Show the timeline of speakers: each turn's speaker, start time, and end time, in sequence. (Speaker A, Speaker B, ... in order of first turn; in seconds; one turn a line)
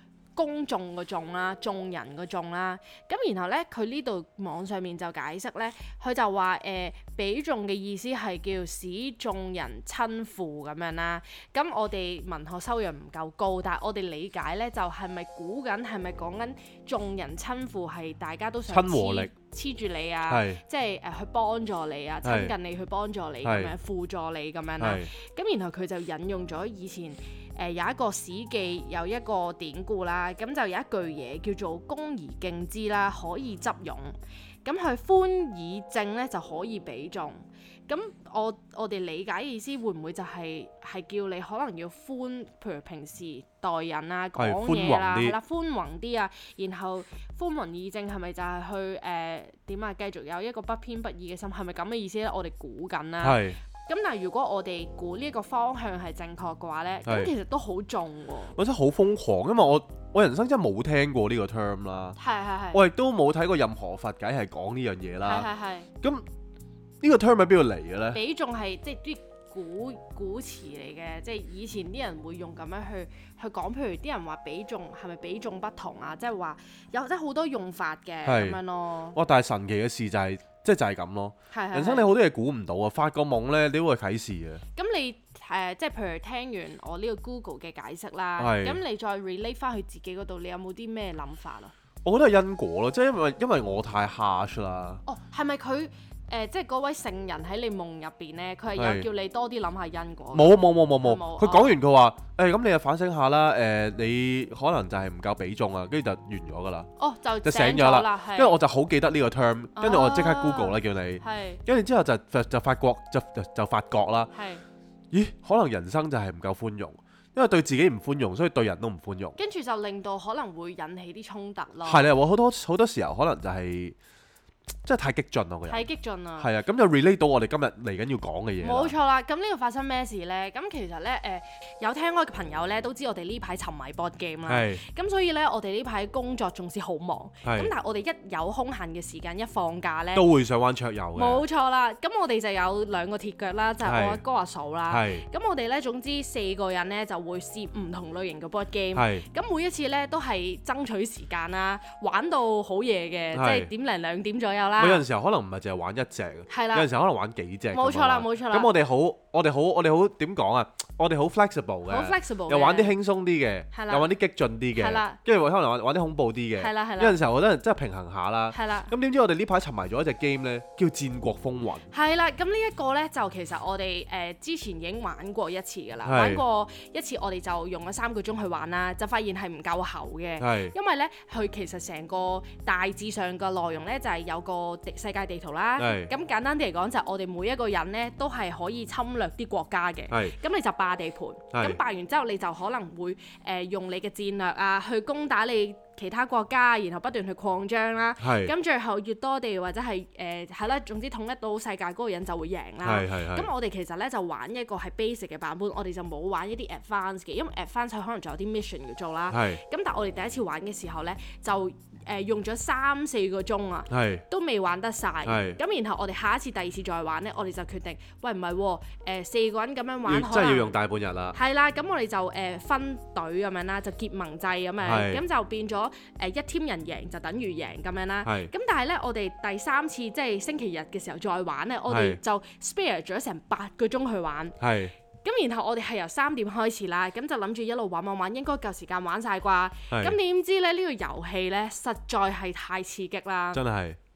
Speaker A: 0.3-58.5
Speaker B: 18.7-19.3
Speaker B: 20.3-20.6
Speaker B: 22.2-22.5
Speaker B: 23.4-23.7
Speaker B: 24.8-25.1
Speaker B: 44.4-45.4
Speaker B: 53.2-53.6
Speaker B: 57.1-57.3
Speaker B: 58.5-62.2
Speaker A: 62.2-62.8
Speaker B: 62.7-65.5
Speaker A: 65.2-65.9
Speaker B: 67.0-68.2
Speaker A: 68.1-79.2
Speaker B: 78.2-78.6
Speaker B: 79.1-84.6
Speaker A: 81.5-82.1
Speaker A: 84.8-91.7
Speaker B: 88.4-88.8
Speaker B: 92.0-95.0
Speaker A: 95.1-101.8
Speaker B: 98.8-99.1
Speaker B: 100.3-106.9
Speaker A: 107.0-108.6
Speaker B: 107.4-114.3
Speaker A: 109.8-111.6
Speaker A: 114.3-114.6
Speaker B: 115.1-119.4
Speaker A: 119.4-122.1
Speaker B: 121.8-124.0
Speaker B: 124.8-128.9
Speaker A: 125.7-126.5
Speaker A: 128.6-140.3
Speaker B: 134.5-134.8
Speaker B: 137.4-137.7
Speaker B: 140.1-141.4
Speaker A: 141.2-155.0
Speaker B: 143.8-144.2
Speaker B: 144.9-145.2
Speaker B: 148.9-149.2
Speaker B: 153.3-153.7
Speaker B: 154.8-171.9
Speaker A: 156.5-156.9
Speaker A: 157.7-158.7
Speaker A: 161.9-163.0
Speaker A: 163.7-164.1
Speaker A: 164.7-165.2
Speaker A: 166.6-167.2
Speaker A: 168.5-168.9
Speaker A: 171.9-220.8
Speaker B: 176.1-176.4
Speaker B: 180.4-180.7
Speaker B: 185.8-186.1
Speaker B: 190.1-190.4
Speaker B: 191.5-191.8
Speaker B: 198.2-198.5
Speaker B: 202.8-203.5
Speaker B: 209.3-209.6
Speaker B: 213.9-214.2
Speaker B: 215.2-215.6
Speaker B: 220.1-221.4
Speaker A: 221.3-234.6
Speaker B: 224.8-225.2
Speaker B: 228.2-228.5
Speaker B: 231.9-232.2
Speaker B: 234.6-234.9
Speaker A: 235.2-243.6
Speaker B: 239.9-240.2
Speaker B: 243.5-244.0